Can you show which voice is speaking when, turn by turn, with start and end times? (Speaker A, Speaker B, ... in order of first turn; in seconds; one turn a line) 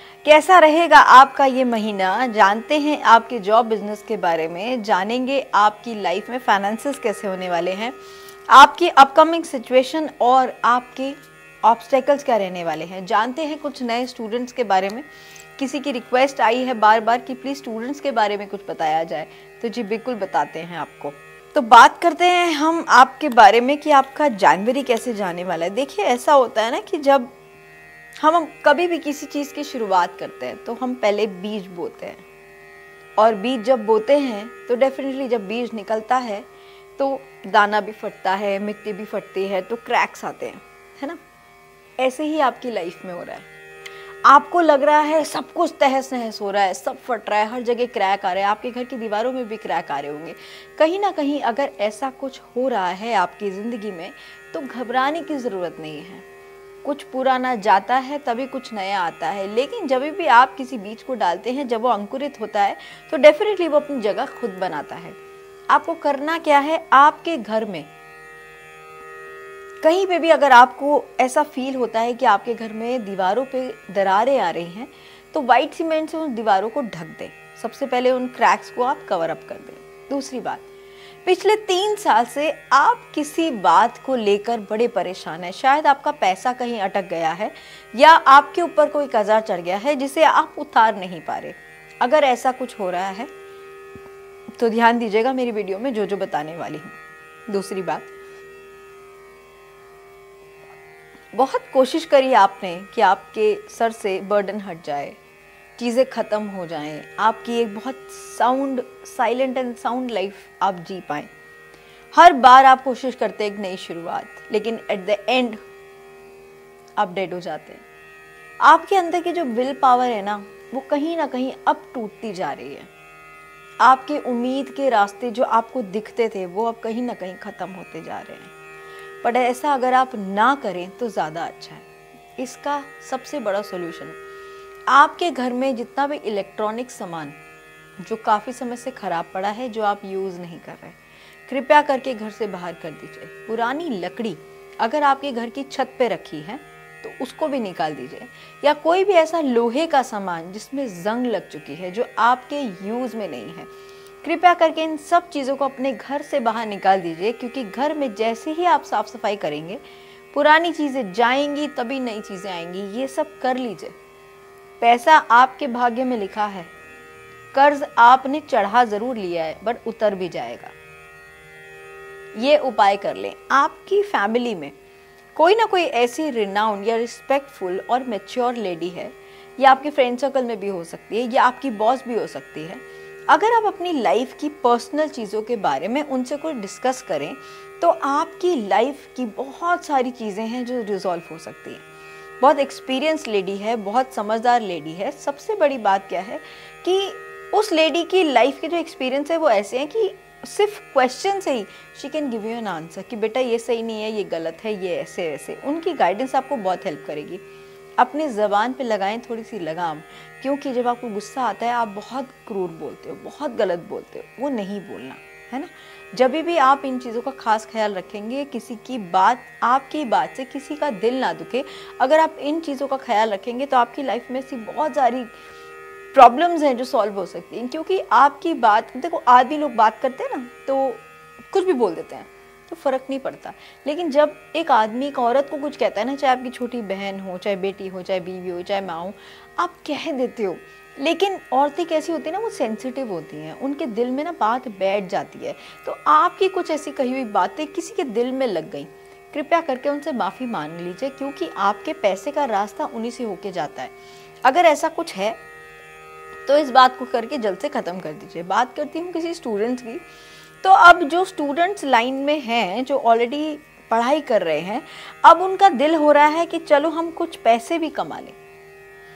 Speaker A: 0.2-8.0
Speaker A: 8.5-15.1
Speaker A: 15.6-27.3
Speaker A: 28.2-32.2
Speaker A: 33.2-36.5
Speaker A: 37.0-41.2
Speaker A: 42.0-43.5
Speaker A: 44.2-56.2
Speaker A: 56.8-65.2
Speaker A: 65.7-67.9
Speaker A: 69.8-80.7
Speaker A: 81.2-93.3
Speaker A: 94.6-97.0
Speaker A: 97.5-98.1
Speaker A: 101.3-105.2
Speaker A: 105.8-111.3
Speaker A: 112.1-115.6
Speaker A: 117.0-117.8
Speaker A: 118.6-122.9
Speaker A: 123.8-128.5
Speaker A: 129.2-131.8
Speaker A: 132.4-134.2
Speaker A: 134.9-137.4
Speaker A: 138.0-153.7
Speaker A: 154.2-163.9
Speaker A: 164.8-166.7
Speaker A: 167.5-170.7
Speaker A: 172.3-174.7
Speaker A: 175.3-191.8
Speaker A: 192.4-207.4
Speaker A: 208.0-225.4
Speaker A: 226.1-255.4
Speaker A: 256.4-260.0
Speaker A: 260.6-268.4